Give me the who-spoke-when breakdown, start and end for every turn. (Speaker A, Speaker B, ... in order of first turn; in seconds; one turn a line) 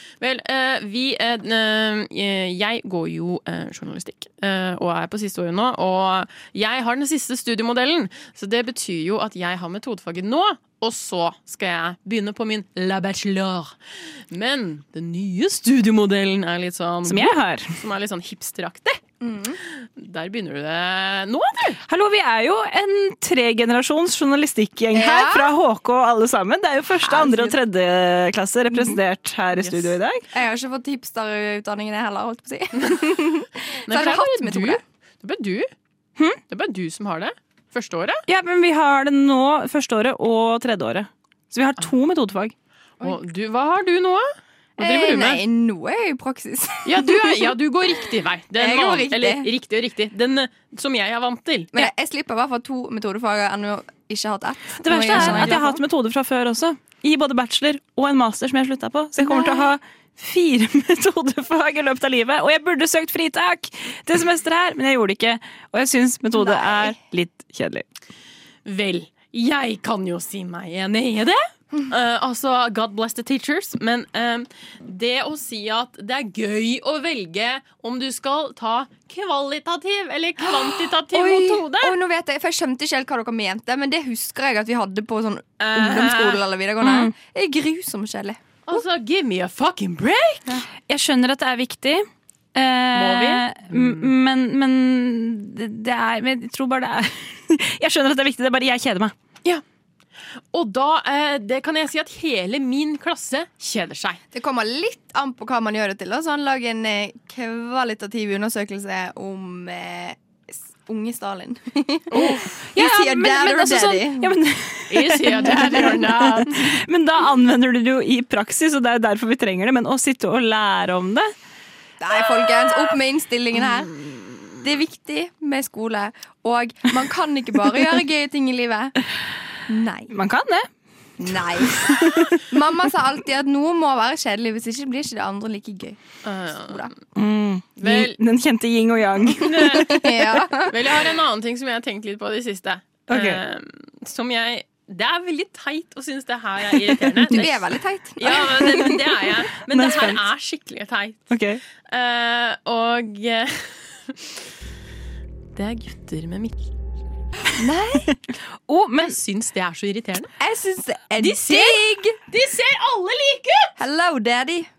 Speaker A: 0.2-13.8
Speaker A: 14.3-19.0
Speaker B: 17.1-17.8
Speaker C: 19.2-19.6
Speaker A: 19.7-21.8
Speaker B: 21.9-30.2
Speaker C: 24.9-25.5
Speaker C: 27.1-27.6
Speaker A: 29.6-29.9
Speaker C: 30.3-34.8
Speaker A: 32.8-33.1
Speaker A: 33.9-35.7
Speaker A: 36.5-38.2
Speaker B: 38.3-42.5
Speaker A: 43.0-44.3
Speaker C: 44.8-47.5
Speaker A: 44.8-45.4
Speaker A: 46.9-51.7
Speaker C: 48.6-49.5
Speaker C: 51.7-55.8
Speaker B: 54.8-67.8
Speaker A: 55.1-55.7
Speaker C: 59.2-59.7
Speaker C: 66.4-67.0
Speaker A: 68.7-82.0
Speaker C: 80.4-88.8
Speaker A: 85.6-86.4
Speaker B: 86.8-87.1
Speaker A: 88.7-90.6
Speaker B: 90.9-99.1
Speaker A: 92.9-94.1
Speaker A: 100.5-104.2
Speaker C: 104.3-114.4
Speaker A: 112.1-112.6
Speaker B: 112.8-121.3
Speaker A: 114.9-116.8
Speaker C: 122.0-123.9
Speaker C: 124.6-128.9
Speaker C: 129.7-130.1
Speaker B: 130.1-130.7
Speaker C: 131.2-136.0
Speaker B: 131.7-132.4
Speaker A: 136.2-136.9
Speaker B: 137.2-139.9
Speaker A: 137.8-138.2
Speaker A: 139.3-151.3
Speaker C: 139.5-141.1
Speaker B: 143.1-143.4
Speaker B: 146.8-147.2
Speaker C: 147.3-149.1
Speaker B: 149.6-150.3
Speaker B: 151.3-151.6
Speaker A: 151.9-154.4
Speaker A: 155.6-156.6
Speaker C: 157.6-158.1
Speaker B: 158.3-159.2
Speaker A: 159.0-160.3
Speaker C: 160.4-162.2
Speaker A: 161.2-163.7
Speaker C: 163.8-164.7